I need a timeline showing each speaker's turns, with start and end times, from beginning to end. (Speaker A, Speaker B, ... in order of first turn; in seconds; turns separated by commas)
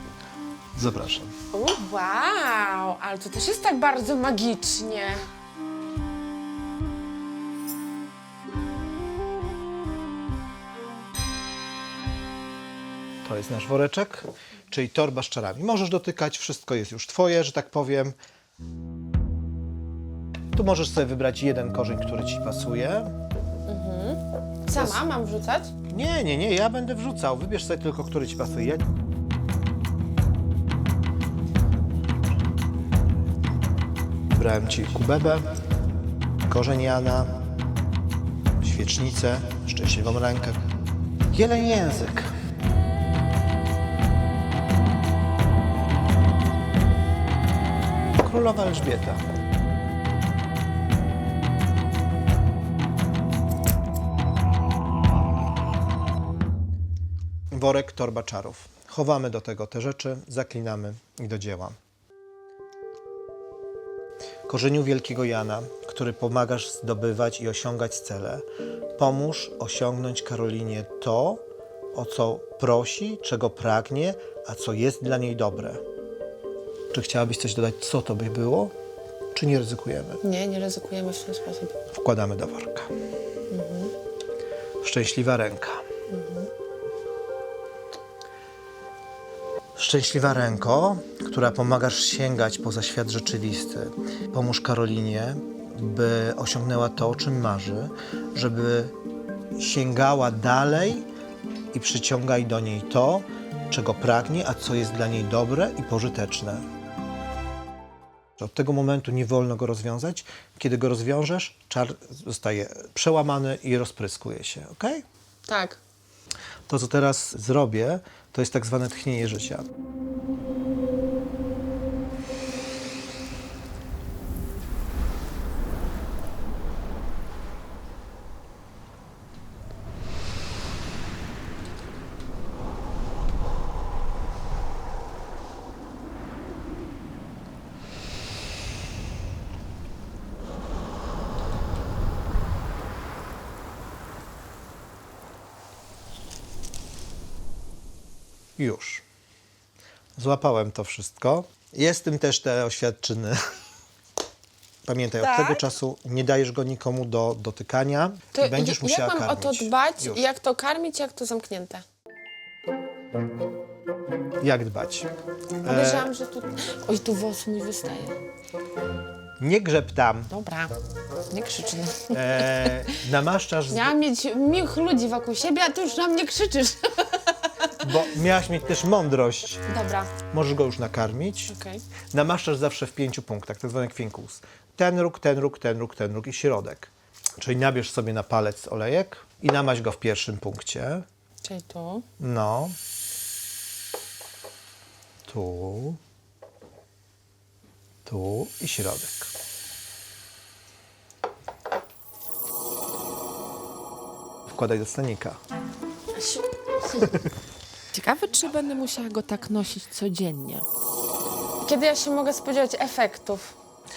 Speaker A: 0.7-1.3, Speaker B: 1.5-5.2, Speaker A: 13.2-18.1, Speaker A: 20.5-23.1, Speaker B: 23.7-25.7, Speaker A: 24.7-25.0, Speaker A: 25.9-28.9, Speaker A: 34.3-35.5, Speaker A: 36.5-37.4, Speaker A: 38.6-40.6, Speaker A: 41.3-42.3, Speaker A: 48.2-49.2, Speaker A: 57.5-61.8, Speaker A: 64.5-68.4, Speaker A: 69.0-75.8, Speaker A: 76.9-78.7, Speaker A: 79.3-80.2, Speaker B: 80.2-81.7, Speaker A: 81.9-82.9, Speaker B: 83.5-83.9, Speaker A: 84.8-85.8, Speaker B: 86.1-86.5, Speaker A: 89.8-98.9, Speaker A: 99.6-101.0, Speaker A: 101.7-106.6, Speaker A: 108.4-115.0, Speaker B: 115.5-115.8, Speaker A: 116.7-119.7, Speaker A: 148.6-149.0, Speaker A: 150.2-153.4, Speaker A: 154.8-160.2, Speaker B: 155.2-155.6, Speaker B: 158.3-161.8, Speaker A: 164.4-165.1, Speaker A: 165.6-166.1, Speaker B: 165.7-168.2, Speaker A: 169.4-170.3, Speaker B: 170.3-170.7, Speaker B: 171.3-172.9, Speaker A: 172.1-173.9, Speaker B: 173.7-177.7, Speaker A: 177.8-179.6, Speaker B: 179.7-180.1, Speaker A: 180.3-181.5, Speaker B: 181.5-181.8, Speaker A: 182.1-191.0, Speaker B: 191.4-192.0, Speaker A: 192.2-192.8, Speaker A: 195.2-196.0, Speaker A: 198.0-199.3, Speaker A: 204.5-205.4, Speaker B: 206.1-207.1, Speaker C: 207.9-210.6, Speaker B: 208.2-208.6, Speaker B: 211.6-213.5